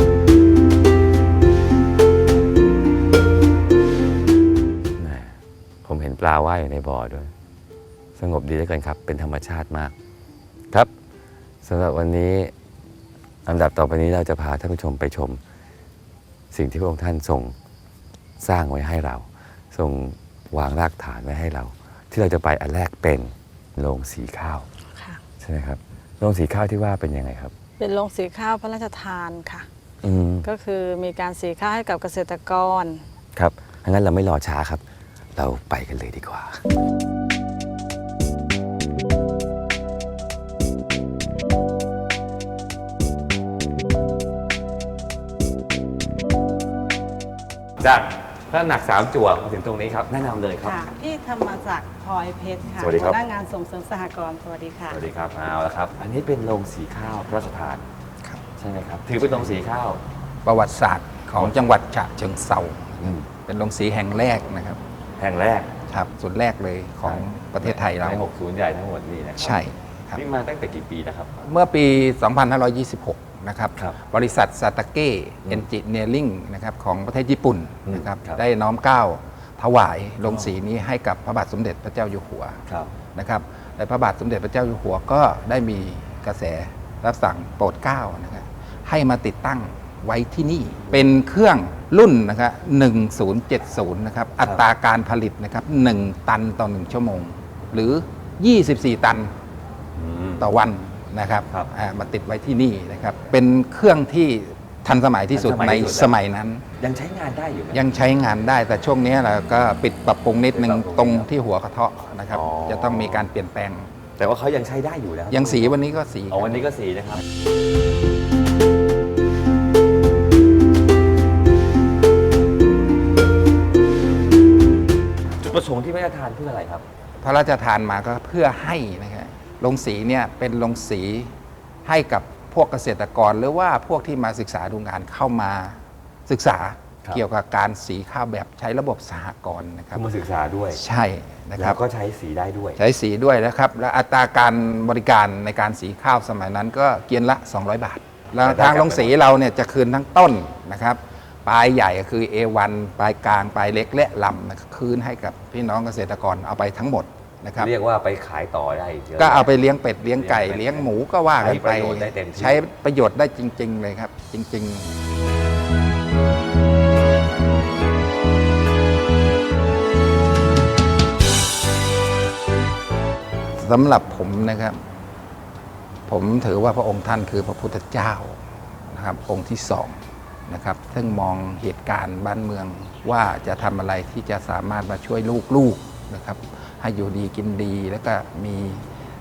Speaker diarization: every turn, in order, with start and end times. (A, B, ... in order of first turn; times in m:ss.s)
0:05.0-0:07.3 A
0:08.2-0:09.9 A
0:11.6-0:12.5 A
0:13.4-0:15.4 A
0:16.5-0:17.5 A
0:18.4-0:24.7 A
0:24.9-0:25.2 B
0:25.4-0:27.5 A
0:27.8-0:29.7 B
0:30.0-0:30.5 A
0:30.4-0:33.0 B
0:33.4-0:34.8 A
0:35.4-0:36.6 A
0:47.8-0:50.8 A
0:50.6-0:55.0 B
0:52.8-0:53.2 A
0:54.9-0:57.9 A
0:58.6-1:00.0 A
1:00.4-1:04.8 C
1:01.4-1:01.6 A
1:03.0-1:03.3 A
1:05.2-1:05.7 A
1:05.9-1:08.2 C
1:07.0-1:11.4 A
1:09.4-1:10.2 C
1:11.4-1:22.6 C
1:17.8-1:18.4 A
1:20.2-1:20.6 A
1:23.1-1:39.3 C
1:40.0-1:40.5 A
1:40.4-1:46.6 C
1:45.3-1:46.1 A
1:46.8-1:47.9 A
1:47.7-1:53.9 C
1:50.5-1:51.3 A
1:52.3-1:53.3 A
1:54.2-1:55.8 A
1:55.3-1:56.7 C
1:56.3-1:57.2 A
2:05.4-2:06.8 A
2:07.2-2:20.1 C
2:19.9-2:20.8 A
2:20.7-2:21.8 C
2:21.6-2:22.8 A
2:22.8-2:37.7 C
2:28.4-2:29.1 A
2:37.6-2:39.5 A
2:39.2-2:44.9 C
2:40.1-2:42.7 A
2:53.6-2:54.8 C
2:56.1-3:08.8 C